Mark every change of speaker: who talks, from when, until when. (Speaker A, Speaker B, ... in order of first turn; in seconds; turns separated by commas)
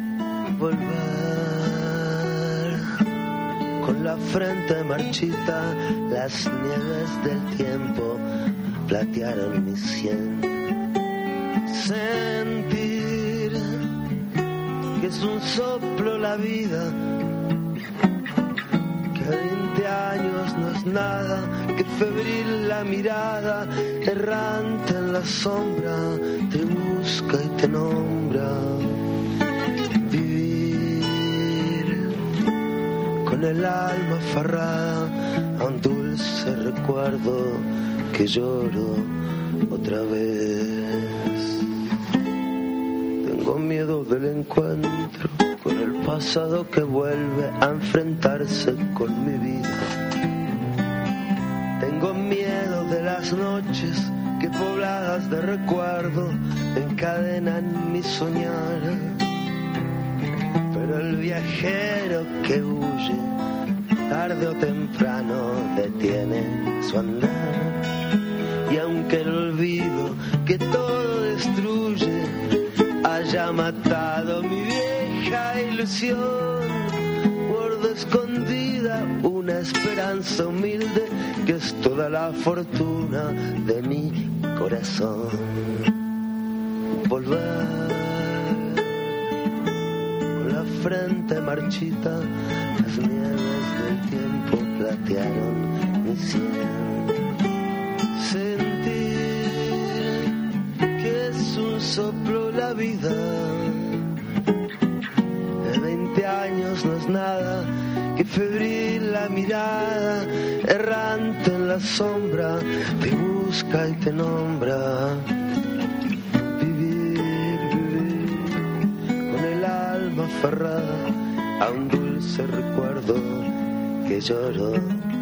Speaker A: 0.6-2.9, Speaker A: 3.8-8.2, Speaker A: 8.8-10.6, Speaker A: 11.7-13.8, Speaker A: 15.0-17.0, Speaker A: 19.1-28.9, Speaker A: 30.0-32.1, Speaker A: 33.2-39.1, Speaker A: 39.7-41.6, Speaker A: 43.2-49.9, Speaker A: 51.8-59.2, Speaker A: 60.7-63.3, Speaker A: 64.1-67.9, Speaker A: 68.7-72.4, Speaker A: 73.0-85.8, Speaker A: 87.0-89.1, Speaker A: 90.3-97.2, Speaker A: 98.1-100.3, Speaker A: 101.0-104.0, Speaker A: 105.6-115.2, Speaker A: 116.6-118.6, Speaker A: 119.3-123.5, Speaker A: 124.0-125.1